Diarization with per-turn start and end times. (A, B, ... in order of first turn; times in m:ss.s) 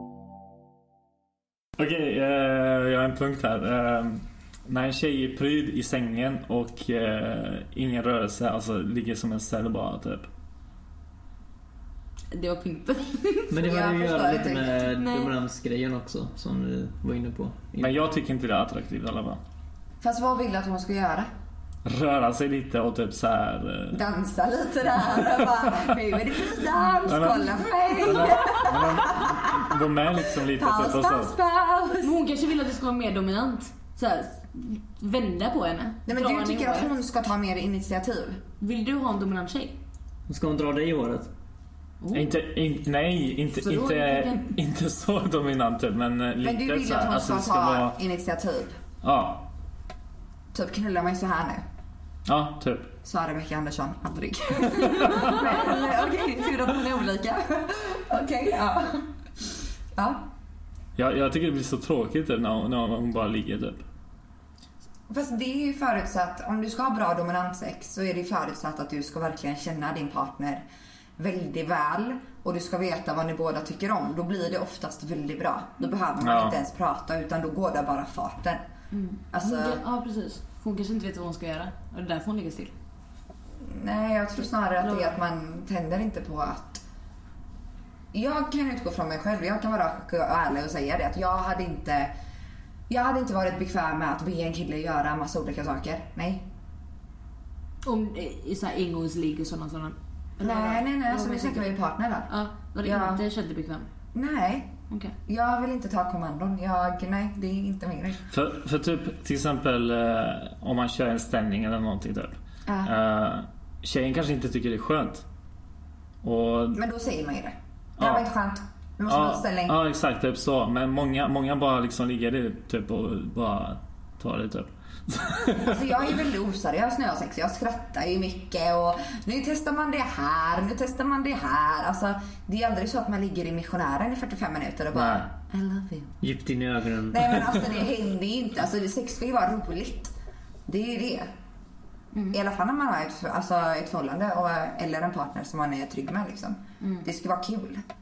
0:01.8-0:10.3 A
0:12.3-0:13.6 B
0:13.5-0:18.0 C
0:13.6-0:15.0 D
0:14.9-0:15.3 B
0:17.8-0:19.4 A
0:20.0-0:21.3 D
0:21.8-0:24.0 A
0:23.9-0:32.2 D
0:27.0-0:31.4 A
0:32.0-0:36.9 B
0:36.1-0:38.4 D
0:38.6-0:39.8 B
0:40.3-0:41.3 C
0:42.0-0:42.4 B
0:42.1-0:48.0 A
0:43.6-0:44.6 B
0:46.4-0:48.8 D
0:49.0-0:49.5 A
0:50.5-0:51.6 D
0:52.3-0:52.9 A
0:53.0-0:59.1 D
0:54.7-0:55.5 A
1:00.0-1:00.3 D
1:01.0-1:03.8 A
1:05.1-1:10.7 D
1:11.2-1:18.6 D
1:16.2-1:16.6 A
1:18.9-1:22.7 B
1:19.3-1:19.8 D
1:23.6-1:26.8 D
1:24.8-1:25.2 B
1:28.1-1:32.1 D
1:32.9-1:36.5 D
1:37.8-1:41.7 B
1:40.4-1:42.3 D
1:42.3-1:43.9 B
1:42.8-1:43.2 D
1:44.1-1:44.7 D
1:45.3-1:48.2 D
1:48.3-1:55.2 A
1:52.7-1:52.9 D
1:56.2-1:56.8 A
1:56.7-1:59.8 D
1:58.0-1:58.3 A
1:59.1-2:06.0 A
2:05.6-2:16.2 D
2:14.9-2:15.3 A
2:16.2-2:17.8 C
2:17.1-2:20.1 D
2:20.7-2:21.3 D
2:22.1-2:22.4 B
2:22.3-2:27.8 D
2:26.8-2:27.1 B